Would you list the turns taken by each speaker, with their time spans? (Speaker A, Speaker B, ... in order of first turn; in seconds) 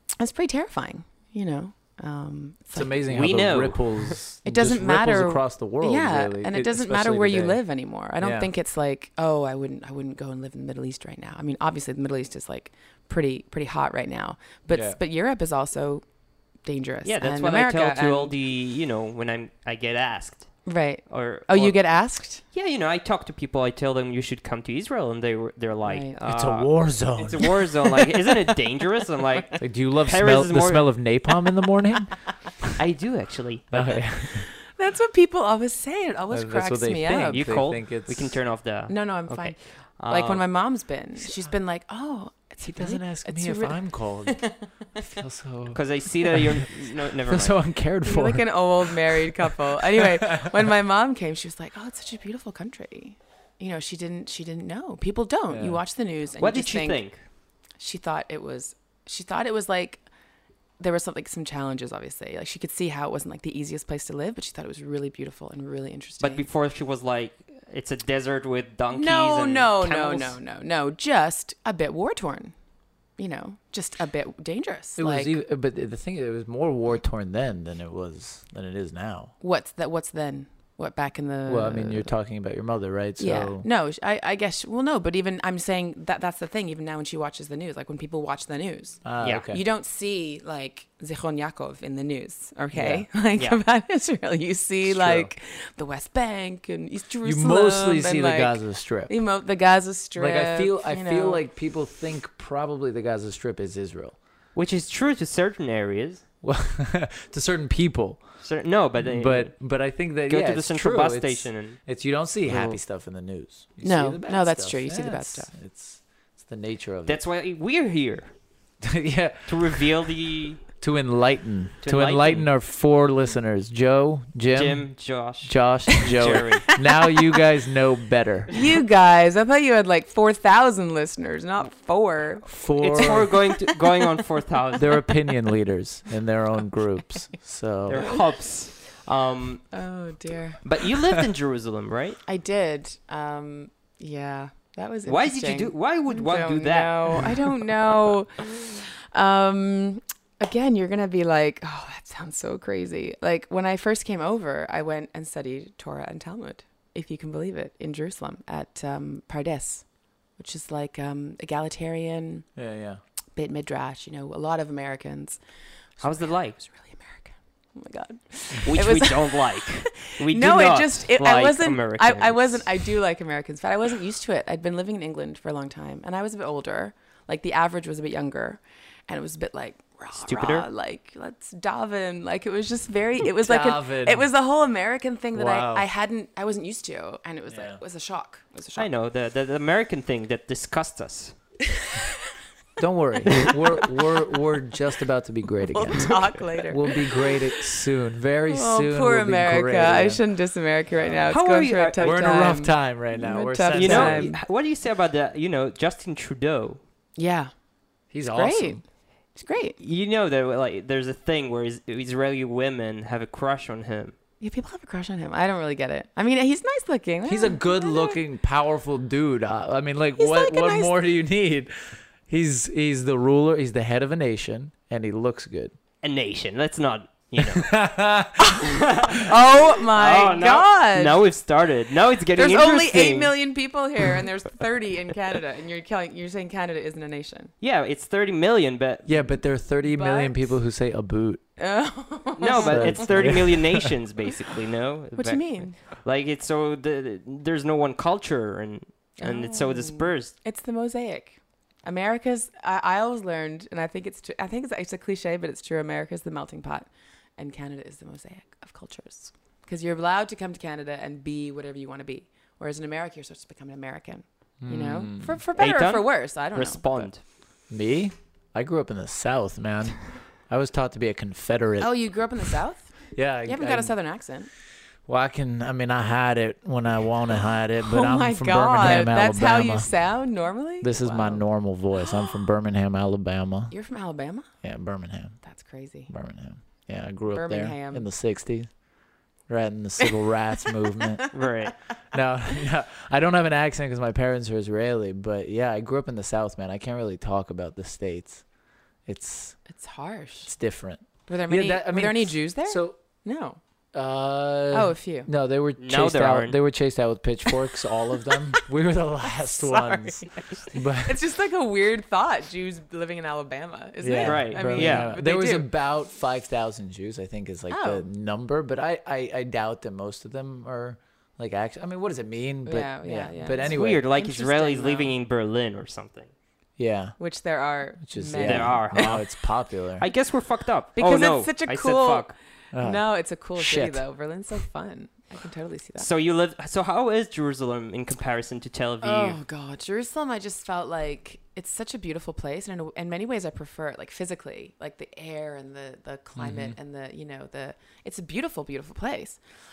Speaker A: 0.2-3.0, 4.4-16.0, 16.6-18.3, 20.6-22.4, 25.8-26.2, 34.5-37.5, 38.9-44.6, 48.0-57.0, 57.8-60.0, 60.8-66.5, 68.9-72.5, 73.2-75.3, 79.4-82.1, 83.2-101.4, 113.8-115.5, 128.5-133.6, 139.7-140.6, 142.2-159.8, 160.4-162.5, 163.3-165.4, 166.0-188.9, 195.7-197.6, 198.5-204.4, 207.2-207.5, 208.3-208.8, 209.3-209.8, 214.4-218.2, 220.2-220.9, 228.8-231.2, 232.3-237.5, 239.8-240.5, 241.6-243.4, 245.1-245.8, 249.2-267.1, 271.8-274.5, 277.8-281.5, 283.7-284.5, 285.4-286.1, 287.3-288.1, 299.7-300.5, 301.3-303.6, 304.7-305.3, 309.3-315.7, 317.7-318.0, 322.6-325.1, 327.2-329.1, 330.9-336.1, 339.0-349.4
Speaker B: 2.7-7.6, 8.2-8.5, 14.7-15.0, 26.2-27.7, 29.6-32.7, 33.7-34.5, 36.3-38.4, 42.6-46.7, 47.2-50.5, 55.5-55.8, 75.0-79.3, 81.5-83.7, 89.0-89.6, 92.7-93.1, 94.8-95.3, 97.2-99.1, 100.2-104.2, 106.4-108.4, 109.0-117.2, 118.8-119.8, 120.8-128.5, 132.4-133.3, 134.8-138.1, 162.6-163.0, 183.3-184.3, 185.3-185.9, 187.5-187.8, 192.8-200.2, 202.0-204.3, 208.1-208.8, 217.3-225.7, 227.4-228.6, 239.1-241.4, 242.6-243.9, 264.6-265.4, 267.7-271.9, 273.1-273.9, 275.1-279.9, 280.8-283.7, 284.6-285.4, 286.1-288.7, 289.5-291.4, 292.1-298.4, 299.1-299.6, 300.5-303.0, 303.9-311.2, 314.0-324.0, 326.8-327.2, 328.0-330.0, 332.7-334.0, 346.4-346.8
Speaker C: 3.1-4.2, 17.0-21.8, 22.5-30.9, 32.8-34.0, 37.3-40.5, 45.7-47.6, 56.4-57.2, 66.2-70.4, 104.5-106.2, 108.4-109.7, 110.3-111.8, 112.5-112.8, 117.0-118.3, 119.5-120.6, 121.8-122.5, 124.5-126.7, 132.8-135.1, 137.9-139.7, 140.6-142.2, 145.1-147.5, 166.0-166.8, 168.6-172.8, 180.2-180.7, 188.8-191.3, 201.3-202.4, 203.7-206.8, 209.8-214.1, 226.0-227.8, 228.6-233.3, 237.6-239.2, 242.4-250.3, 265.6-267.2, 291.3-291.7, 305.8-306.6, 314.2-315.1, 323.6-326.3, 328.4-332.4, 336.0-339.4